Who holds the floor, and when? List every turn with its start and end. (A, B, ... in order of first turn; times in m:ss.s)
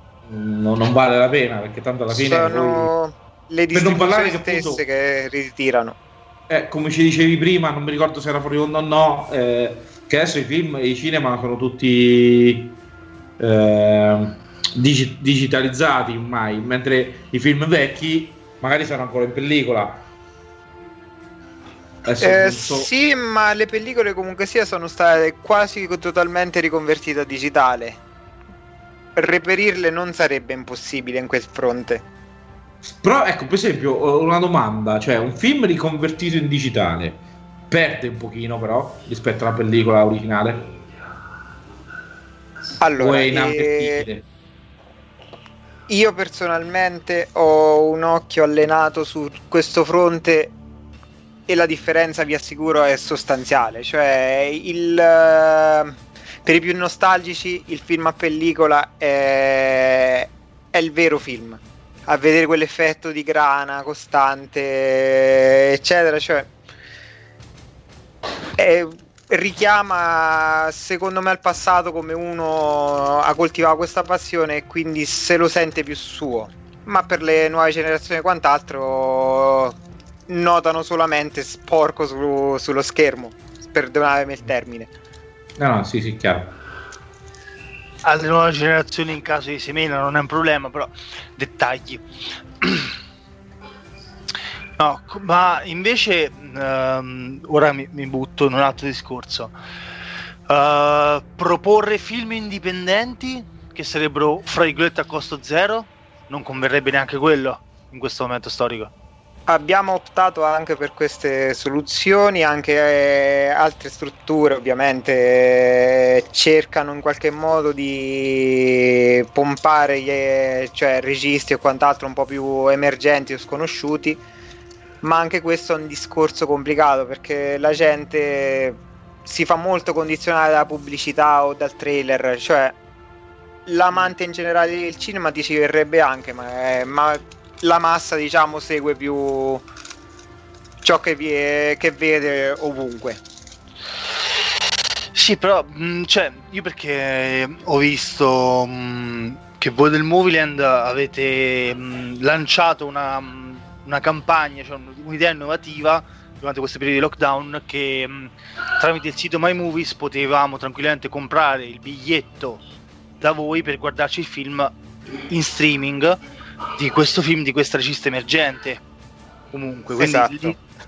0:00.2-0:02.9 A
0:02.1-0:06.0 B
0:03.7-0:04.8 A
0:06.5-0:12.8 A
0:13.4-0:20.0 A
0:22.0-0:22.9 A
0:22.2-0:28.0 B
0:29.2-0:32.0 B
0:33.0-0:40.7 A
0:42.8-0:44.0 B
0:43.0-0:44.2 A
0:45.9-0:50.5 B
0:51.5-1:06.5 B
1:08.6-1:19.8 B
1:20.3-1:24.9 B
1:25.6-1:26.5 A
1:28.0-1:32.0 C
1:32.6-1:32.9 C
1:34.8-1:39.5 C
1:40.5-1:48.9 C
1:49.5-2:04.2 B
2:05.0-2:12.8 B
2:13.7-2:19.6 B
2:20.8-2:23.2 B
2:25.1-2:42.6 C
2:43.2-2:44.7 C
2:45.3-2:46.2 C
2:46.7-2:48.8 C
2:49.5-2:50.6 C
2:50.0-2:50.6 B